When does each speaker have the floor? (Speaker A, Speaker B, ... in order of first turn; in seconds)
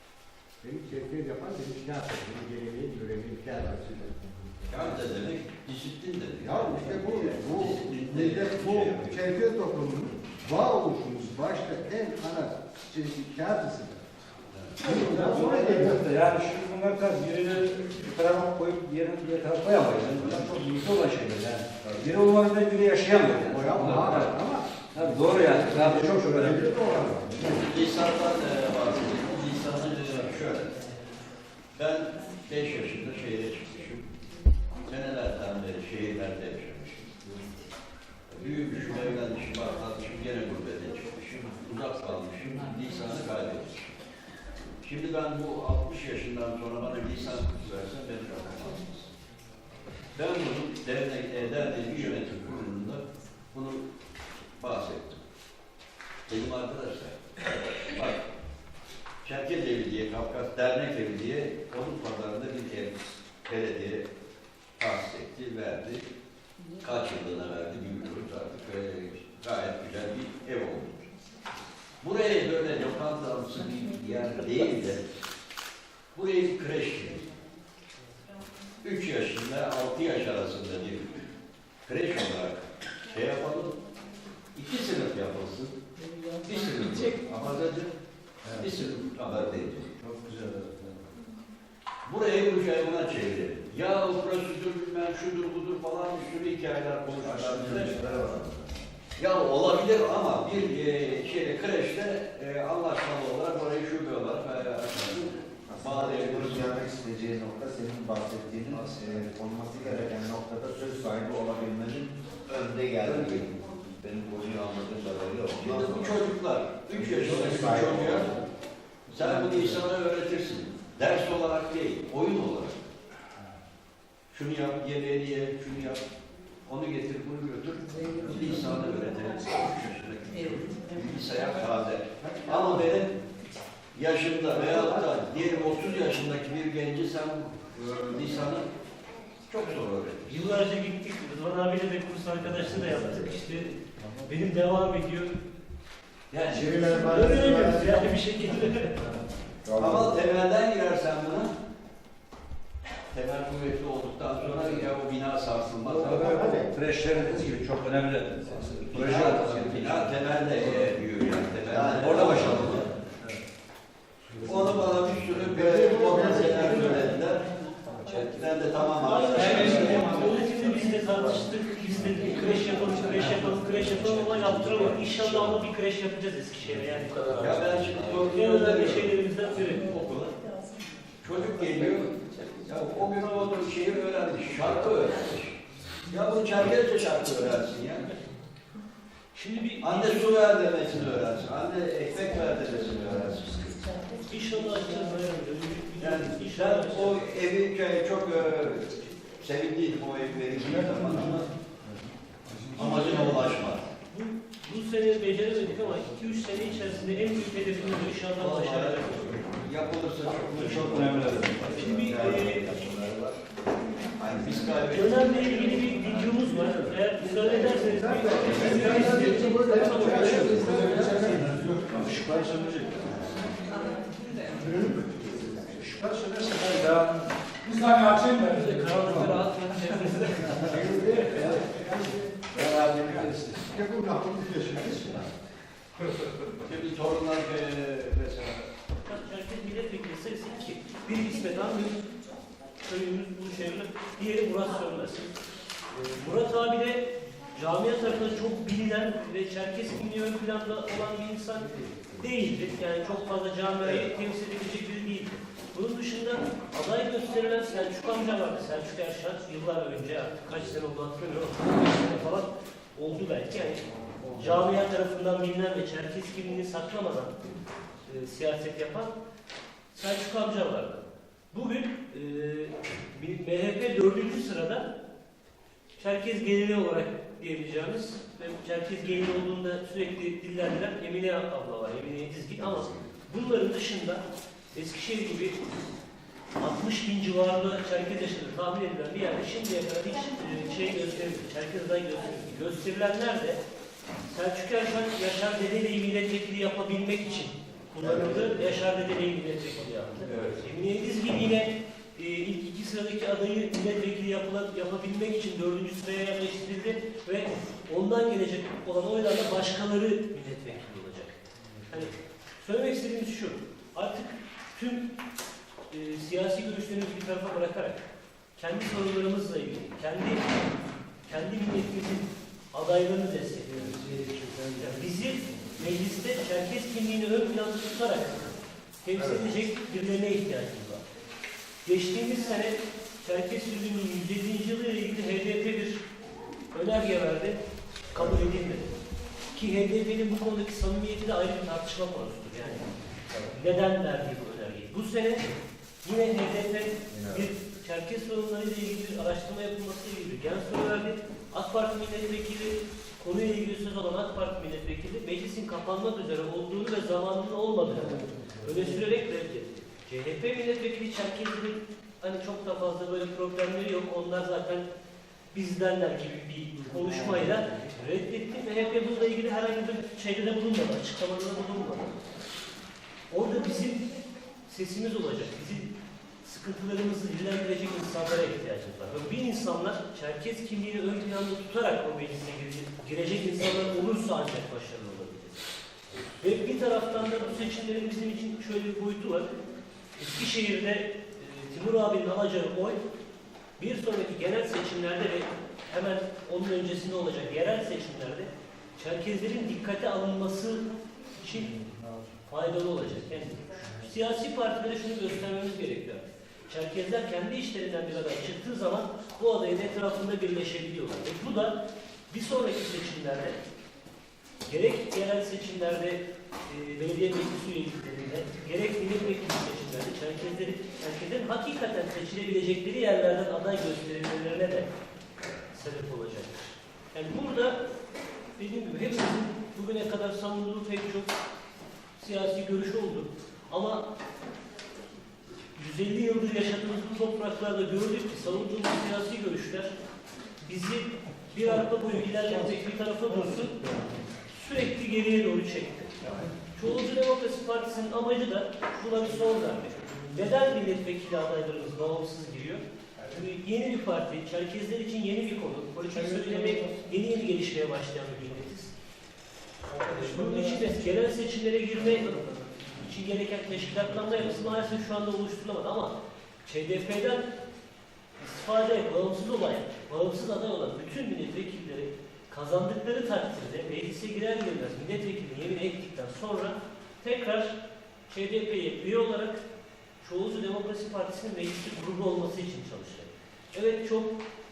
Speaker A: 0.6-5.2, 6.4-14.1, 14.8-16.1, 23.1-27.7, 132.2-133.0, 134.5-135.1, 146.5-148.1, 156.1-156.8, 165.4-167.2, 217.2-221.6, 224.5-225.7, 230.4-235.3, 358.1-358.6
Speaker B: 4.7-9.2, 14.5-14.8, 27.5-31.0, 31.7-34.2, 34.9-37.1, 38.3-43.9, 44.8-49.1, 50.1-53.9, 54.6-55.2, 56.3-58.2, 59.2-64.1, 64.8-66.1, 66.8-71.1, 72.0-75.0, 76.1-77.3, 78.8-81.2, 81.8-83.8, 84.5-85.8, 86.4-87.8, 88.6-89.9, 92.0-98.0, 99.2-106.8, 108.7-109.1, 115.6-118.3, 119.1-122.8, 124.3-126.1, 126.7-133.2, 133.9-138.7, 139.5-140.5, 146.3-146.7, 149.8-151.6, 153.1-156.5, 158.8-162.9, 164.4-175.5, 177.3-180.3, 181.2-188.1, 189.8-193.9, 196.0-201.5, 202.8-203.9, 208.4-212.4, 214.2-215.9, 218.4-219.7, 236.6-238.7, 298.0-298.6, 300.2-300.6
Speaker C: 14.8-24.4, 24.9-26.7, 87.2-87.8, 88.5-88.8, 90.0-91.0, 119.2-119.8, 155.8-161.0, 161.6-163.4, 200.6-202.9, 210.4-212.0, 216.3-217.0, 218.9-219.2, 220.0-223.2, 224.6-224.8, 225.5-229.5, 230.1-230.8, 232.5-233.7
Speaker D: 97.1-98.9, 105.7-116.2, 116.9-118.4, 147.2-147.5, 149.6-150.2, 211.5-213.4, 223.1-223.5, 298.0-298.5, 329.1-329.5, 338.1-338.5, 347.1-347.5
Speaker E: 140.2-143.7, 144.2-145.3, 146.4-149.1, 169.0-180.0, 189.3-190.3, 194.2-197.2, 202.9-203.2, 204.1-209.4, 211.6-212.8, 214.9-221.6, 228.4-231.1, 239.0-242.1, 242.8-245.3, 245.9-267.4, 268.1-269.1, 269.9-274.9, 276.0-285.6, 286.6-293.6, 294.3-311.4, 311.9-315.1, 315.9-318.1, 318.6-320.5, 321.2-323.8, 324.8-331.0, 331.9-336.1, 336.7-337.6, 338.1-338.9, 339.5-345.5, 346.0-364.9, 365.5-372.2, 373.3-374.1, 374.7-385.6, 386.4-389.5, 390.2-393.0, 393.8-401.9, 402.4-413.6, 414.6-424.9, 425.5-427.8, 428.6-431.3, 432.2-434.1, 435.8-439.9, 440.6-443.9, 444.4-458.9, 460.0-466.1, 466.6-467.5, 468.4-477.8, 478.3-479.6, 480.2-484.4